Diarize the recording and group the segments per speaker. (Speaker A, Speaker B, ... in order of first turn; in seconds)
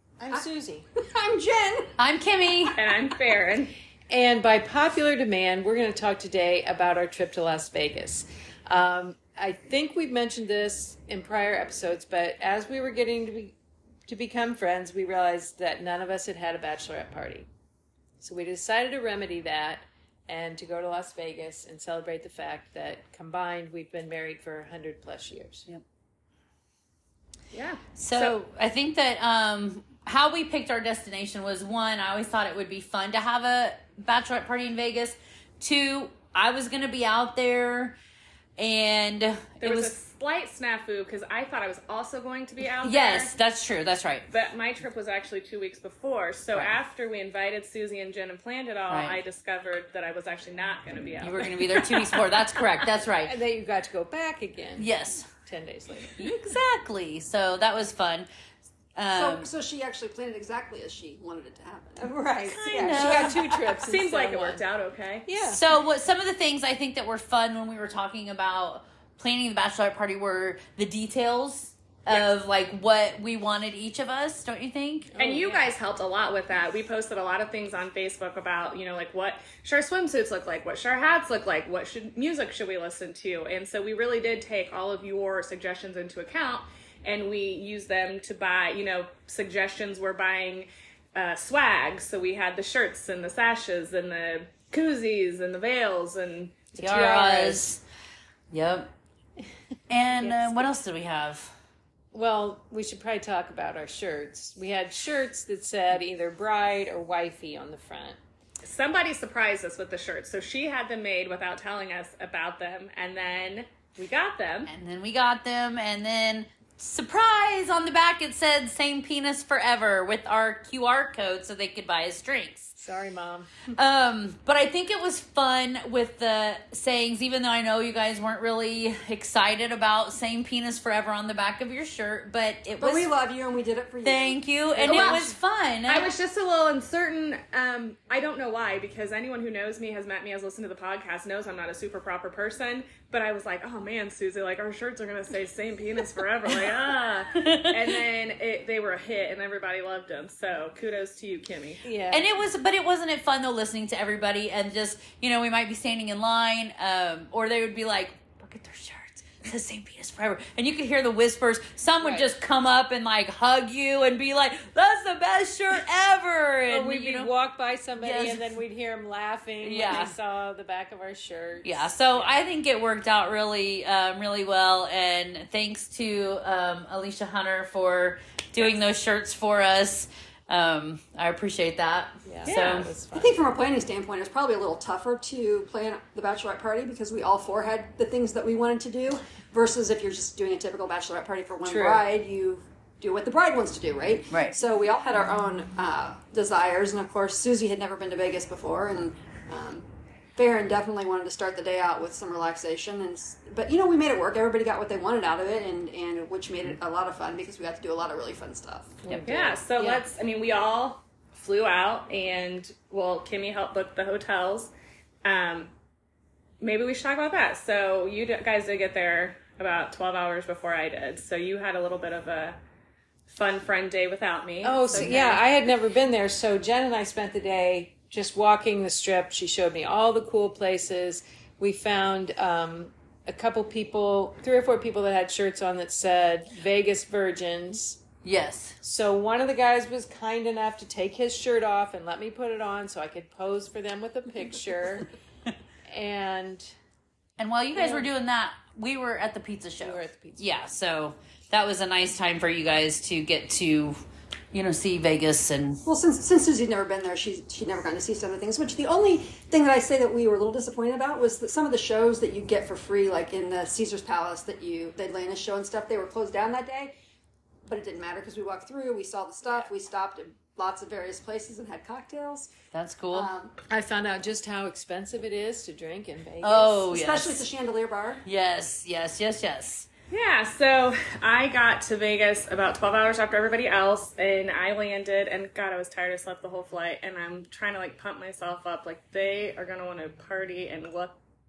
Speaker A: 0.2-0.8, 4.1-13.6, 14.1-17.5, 18.2-25.7, 53.2-54.9, 55.4-56.2, 62.0-64.6, 65.3-65.6, 75.1-75.7, 96.7-97.7, 100.2-100.7, 102.1-108.2, 122.8-123.5, 134.8-135.1, 151.8-152.3, 162.0-162.3, 166.7-172.4, 182.2-183.4, 191.7-192.0, 209.0-210.0, 224.6-238.0, 238.8-245.1, 245.9-246.8, 247.8-248.1, 249.8-250.4, 273.7-276.8
Speaker B: 1.0-1.9, 59.1-62.2, 62.9-63.3, 132.8-135.3, 183.1-209.0, 255.8-266.9, 267.7-272.5, 273.1-273.6, 276.8-278.2
Speaker C: 2.0-2.8, 28.0-38.0, 38.6-39.9, 42.8-44.3, 48.9-49.2, 51.2-53.4, 54.8-55.3, 56.2-58.3, 59.0-59.5, 62.5-63.4, 65.4-75.1, 96.8-97.8, 98.5-98.9, 99.9-101.5, 114.7-122.8, 123.7-133.1, 134.0-136.1, 147.3-147.9, 152.1-167.3, 168.0-168.6, 169.6-170.1, 171.6-182.9, 238.2-238.8, 247.4-254.0, 254.5-255.8, 272.7-273.3, 276.4-277.4, 278.2-279.9
Speaker D: 2.8-3.7, 27.5-28.4, 39.6-43.3, 44.3-52.2, 62.7-65.3, 75.2-96.7, 108.6-114.7, 134.8-135.2, 135.9-151.8, 182.4-182.8, 209.3-214.7, 215.2-215.7, 216.6-222.6, 223.3-225.4, 280.1-291.2